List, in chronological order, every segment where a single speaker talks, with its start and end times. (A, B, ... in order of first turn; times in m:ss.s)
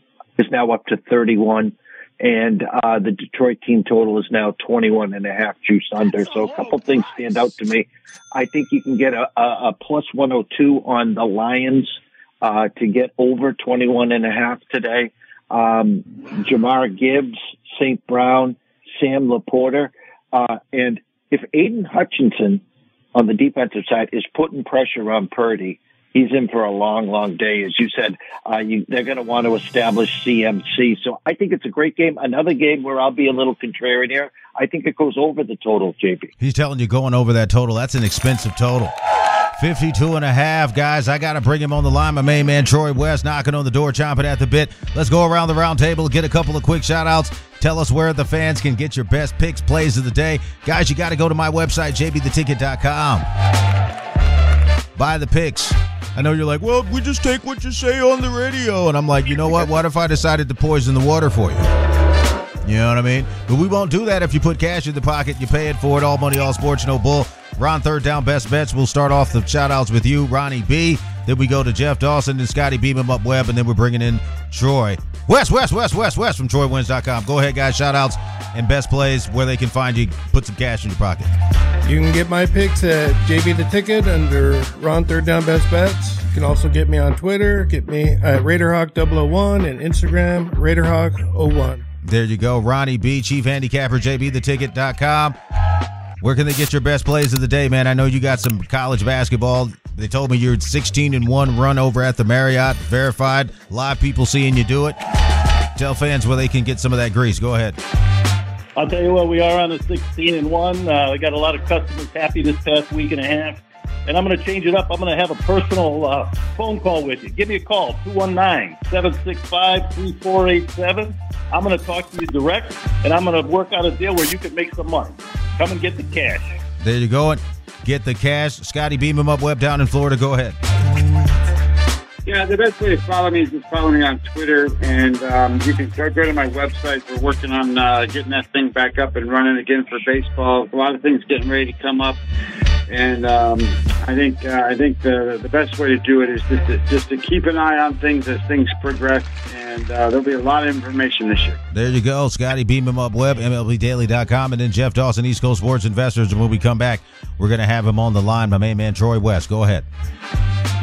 0:00.4-0:22.6 A
0:23.1-0:36.3 A
0:36.4-0:38.9 B
0:39.6-0:53.2 B
0:54.9-1:01.7 B
1:02.6-1:21.3 B
1:21.8-1:31.8 C
1:32.0-1:35.4 B
1:36.2-1:45.0 B
1:45.7-1:47.8 B
1:48.8-2:06.6 D
2:06.8-2:10.6 B
2:12.2-2:22.2 E
2:22.9-2:31.6 E
2:31.7-2:39.8 B